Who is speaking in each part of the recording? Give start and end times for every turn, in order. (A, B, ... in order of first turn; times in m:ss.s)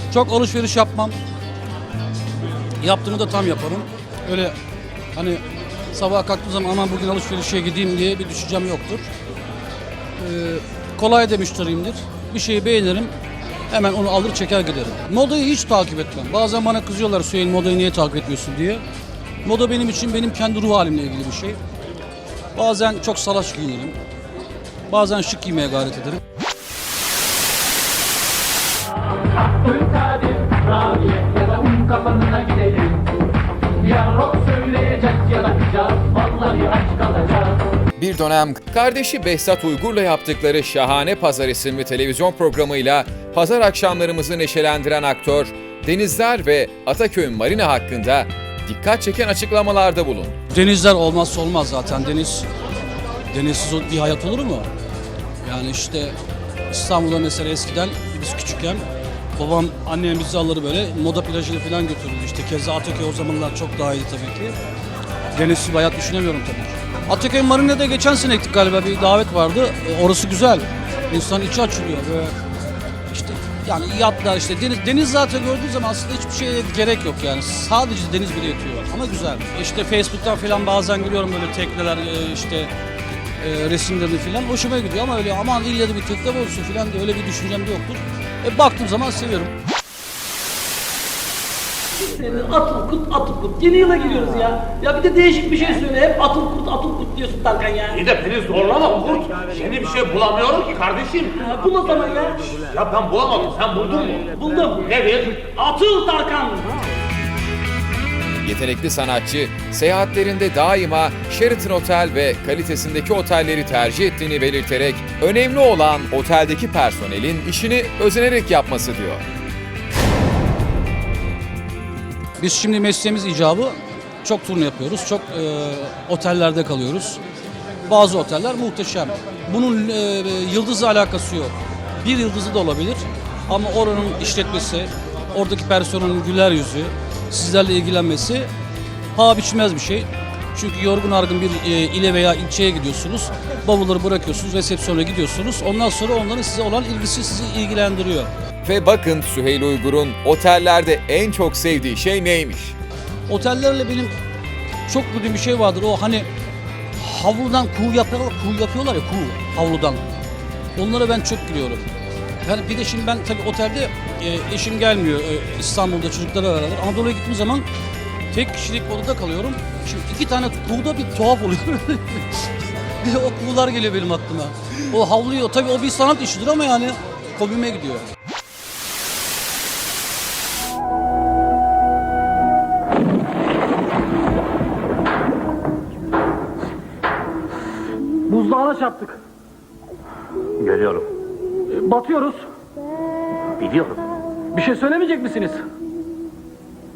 0:00.1-0:01.2 A
0:02.8-0:04.5 A
0:05.2-0:09.0 A
0:10.2-0:13.1 A
0:13.7-0:18.8 A
0:19.4-0:21.6 A
0:22.6-0:24.0 A
0:24.9-0:26.2 A
0:29.6-0:33.0 B
0:33.8-0:37.6 B
0:38.0-0:50.4 C
0:50.5-0:52.5 A
0:53.3-0:54.7 A
0:55.4-0:56.2 A
0:56.7-0:58.8 A
0:59.4-1:04.5 A
1:05.4-1:12.3 A
1:13.1-1:22.7 A
1:23.4-1:29.5 A
1:32.0-1:38.0 B
1:37.9-1:41.4 D
1:41.4-1:42.6 B
1:42.6-1:45.5 D
1:44.3-1:44.9 B
1:45.4-1:46.9 B
1:48.4-1:59.3 C
2:02.4-2:07.2 A
2:07.9-2:18.5 A
2:19.2-2:28.3 A
2:28.6-2:32.8 C
2:33.3-2:34.1 A
2:34.9-2:36.3 A
2:37.0-2:40.0 A
2:40.8-2:41.9 A
2:42.4-2:47.7 A
2:48.3-2:52.4 A
2:53.0-2:58.1 A
3:08.3-3:09.2 A
3:10.7-3:11.0 A
3:11.7-3:12.5 A
3:13.6-3:13.9 A
3:14.5-3:15.6 A